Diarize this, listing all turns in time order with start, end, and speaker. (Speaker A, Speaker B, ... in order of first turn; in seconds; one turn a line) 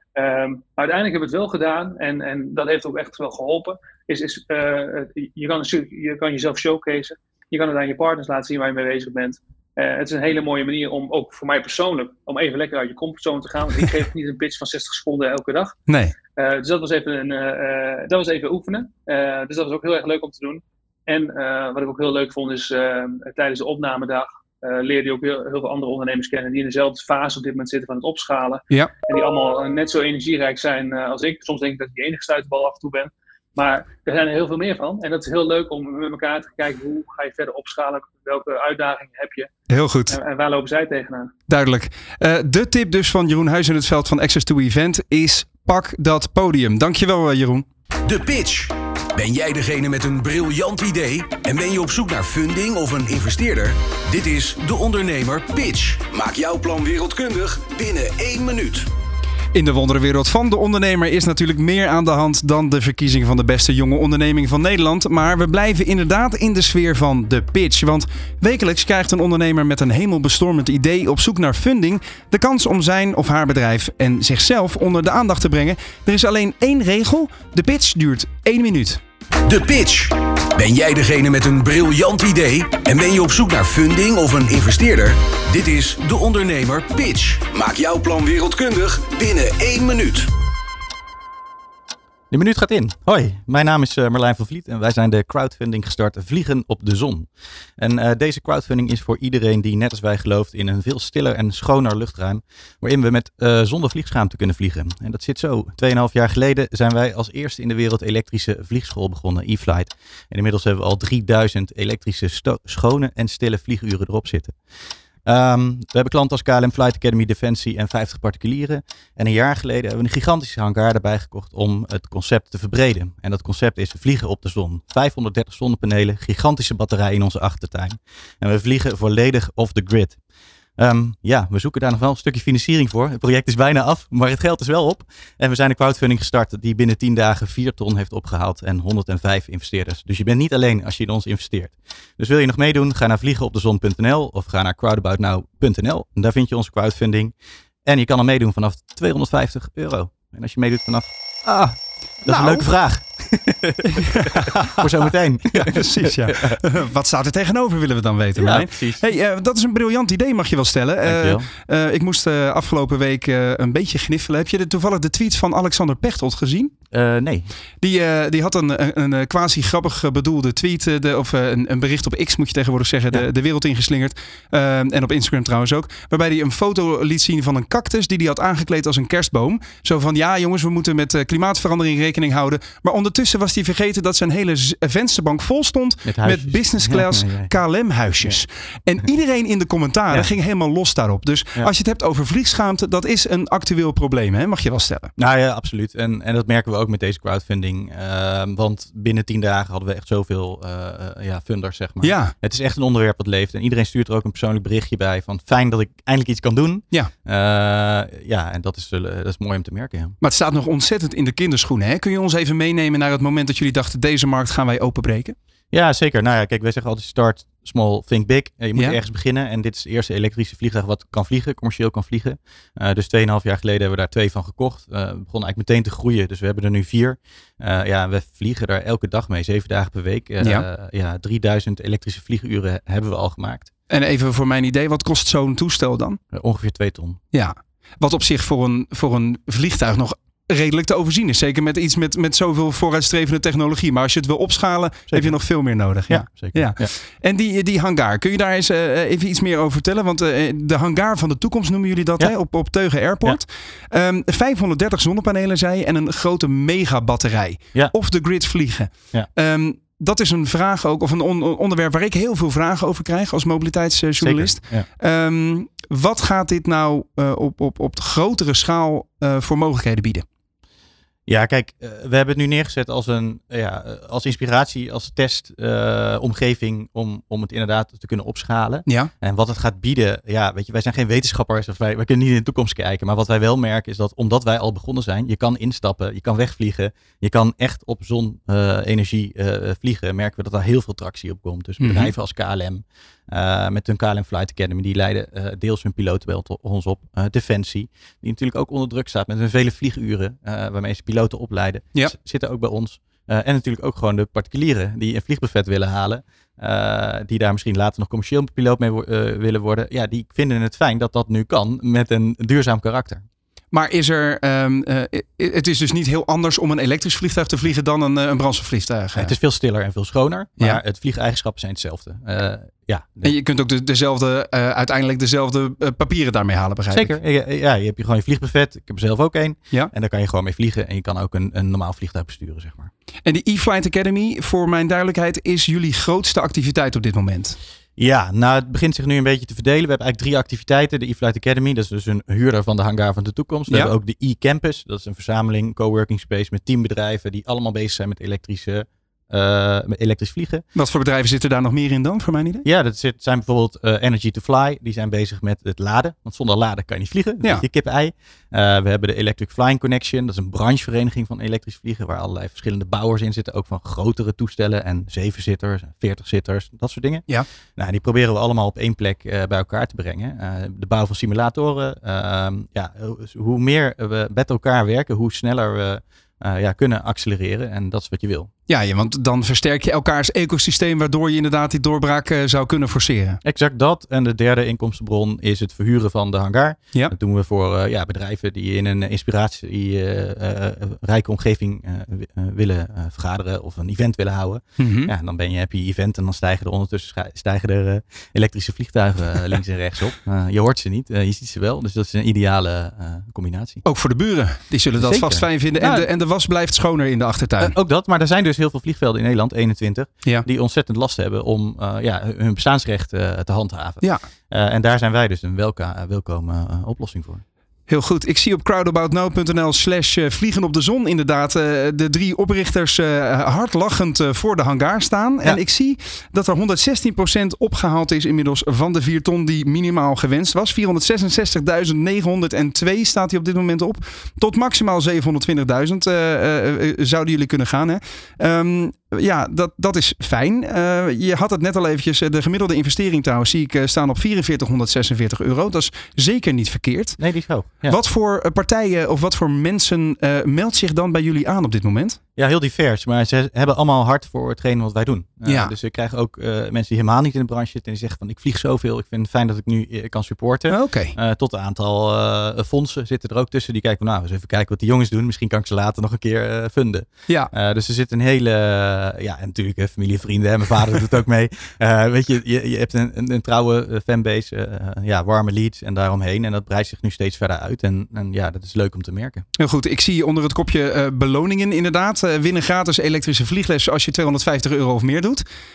Speaker A: 0.2-15.8
Speaker B: 15.9-16.1
Speaker A: 16.4-39.5
Speaker B: 39.7-40.2
Speaker A: 40.1-41.3
Speaker B: 41.5-47.6
Speaker C: 48.1-58.9
Speaker B: 59.5-79.0
Speaker C: 79.5-90.3
Speaker D: 92.3-114.6
Speaker D: 115.2-130.2
Speaker D: 130.8-147.3
Speaker D: 147.8-156.6
Speaker B: 152.3-152.7
Speaker B: 154.1-166.7
Speaker D: 158.4-159.1
Speaker D: 161.0-161.5
Speaker D: 166.9-167.5
Speaker B: 167.8-195.1
Speaker D: 186.1-187.5
Speaker D: 195.2-210.2
Speaker B: 202.0-202.3
Speaker B: 210.2-215.4
Speaker D: 215.7-233.7
Speaker B: 230.4-230.7
Speaker B: 233.9-236.2
Speaker D: 236.3-237.2
Speaker B: 237.3-270.2
Speaker D: 245.1-245.4
Speaker D: 246.1-246.9
Speaker D: 264.2-264.9
Speaker D: 271.3-313.3
Speaker B: 291.8-292.1
Speaker B: 313.7-319.4
Speaker D: 319.2-323.3
Speaker B: 323.2-327.2
Speaker D: 326.9-332.9
Speaker B: 333.3-337.6
Speaker D: 338.0-350.6
Speaker B: 343.7-343.9
Speaker B: 350.8-352.6
Speaker D: 352.6-378.5
Speaker B: 378.7-383.4
Speaker D: 383.4-403.8
Speaker B: 394.8-395.1
Speaker B: 403.9-407.8
Speaker D: 405.0-406.1
Speaker D: 407.6-417.4
Speaker B: 417.9-447.2
Speaker D: 447.2-448.0
Speaker B: 447.9-452.2
Speaker D: 452.4-479.4
Speaker B: 455.5-455.7
Speaker B: 460.7-461.1
Speaker B: 479.6-485.4